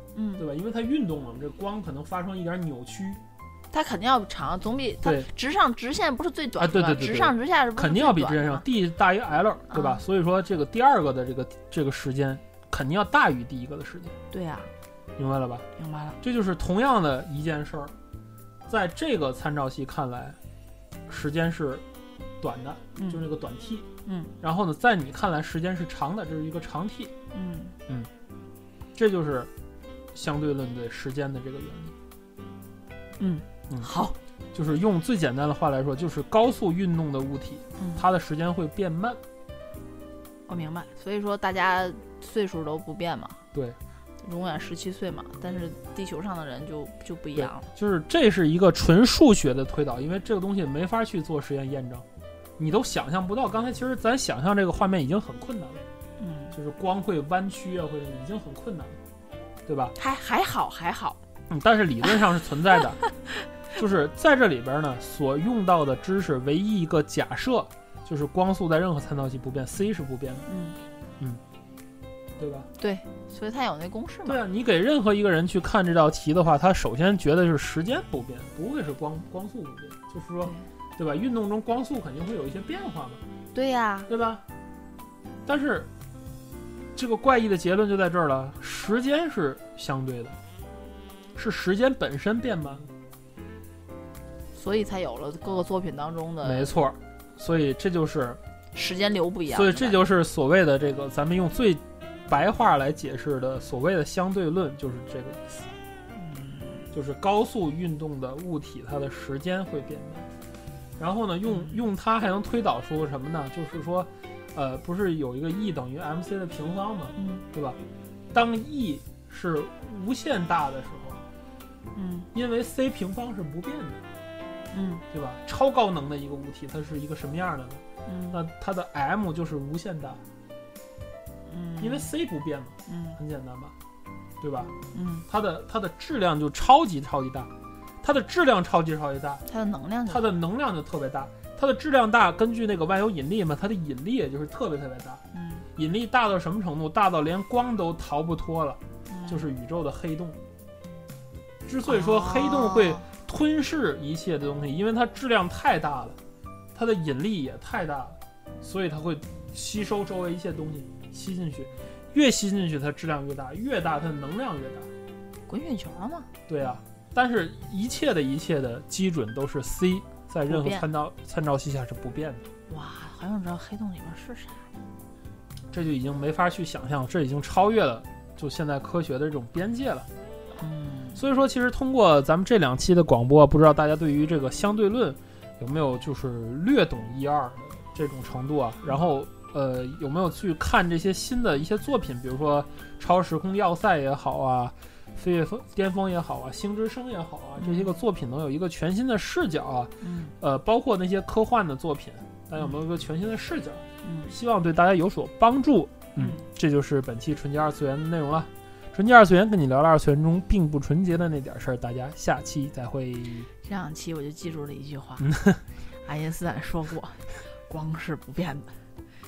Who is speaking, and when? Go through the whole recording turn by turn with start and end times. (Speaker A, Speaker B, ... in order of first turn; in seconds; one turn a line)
Speaker A: 0.1-0.5
Speaker B: 0.4-3.2
Speaker A: 3.7-8.6
Speaker B: 5.0-5.3
Speaker B: 6.6-14.1
Speaker A: 9.7-10.0
Speaker A: 14.3-14.7
Speaker B: 15.2-15.6
Speaker A: 15.8-16.2
Speaker B: 16.2-17.9
Speaker B: 18.7-20.4
Speaker B: 21.1-21.8
Speaker B: 22.4-23.9
Speaker A: 22.9-23.3
Speaker A: 24.1-24.3
Speaker B: 24.4-27.1
Speaker A: 27.3-27.8
Speaker B: 28.9-29.5
Speaker B: 30.1-31.9
Speaker A: 33.2-34.2
Speaker B: 34.5-39.2
Speaker A: 37.8-38.1
Speaker A: 40.5-43.4
Speaker A: 44.2-47.7
Speaker B: 47.4-52.0
Speaker B: 52.6-55.8
Speaker A: 56.2-56.5
Speaker B: 56.5-59.0
Speaker B: 59.6-60.0
Speaker A: 60.0-61.2
Speaker B: 61.5-63.0
Speaker B: 63.7-70.5
Speaker A: 70.5-70.8
Speaker B: 72.4-72.7
Speaker A: 72.8-74.4
Speaker B: 74.2-83.2
Speaker A: 83.5-84.1
Speaker B: 84.1-84.4
Speaker B: 85.5-85.9
Speaker B: 87.0-90.4
Speaker B: 91.3-92.9
Speaker A: 94.5-96.8
Speaker B: 96.4-98.4
Speaker A: 98.7-100.0
Speaker B: 99.5-105.6
Speaker A: 106.1-106.9
Speaker B: 106.9-110.3
Speaker B: 111.0-117.8
Speaker A: 111.5-111.8
Speaker A: 117.1-117.5
Speaker B: 118.3-121.2
Speaker A: 121.9-122.3
Speaker B: 122.3-124.0
Speaker A: 124.7-125.0
Speaker B: 125.1-130.2
Speaker A: 128.1-128.4
Speaker A: 131.5-132.1
Speaker B: 131.8-133.7
Speaker A: 132.9-133.2
Speaker B: 134.4-134.7
Speaker A: 134.9-135.2
Speaker B: 135.3-137.5
Speaker B: 138.0-139.4
Speaker A: 139.5-140.3
Speaker B: 140.1-145.2
Speaker A: 145.3-145.7
Speaker B: 145.8-150.4
Speaker A: 149.1-149.5
Speaker B: 151.7-156.2
Speaker A: 151.8-153.1
Speaker B: 156.8-164.9
Speaker A: 165.5-166.3
Speaker B: 166.5-172.5
Speaker A: 170.5-170.9
Speaker A: 172.7-174.7
Speaker B: 175.7-180.1
Speaker A: 180.6-181.2
Speaker B: 181.2-213.5
Speaker A: 197.6-198.0
Speaker A: 200.0-200.3
Speaker A: 204.0-204.3
Speaker A: 206.2-206.4
Speaker A: 213.6-215.3
Speaker A: 215.9-218.8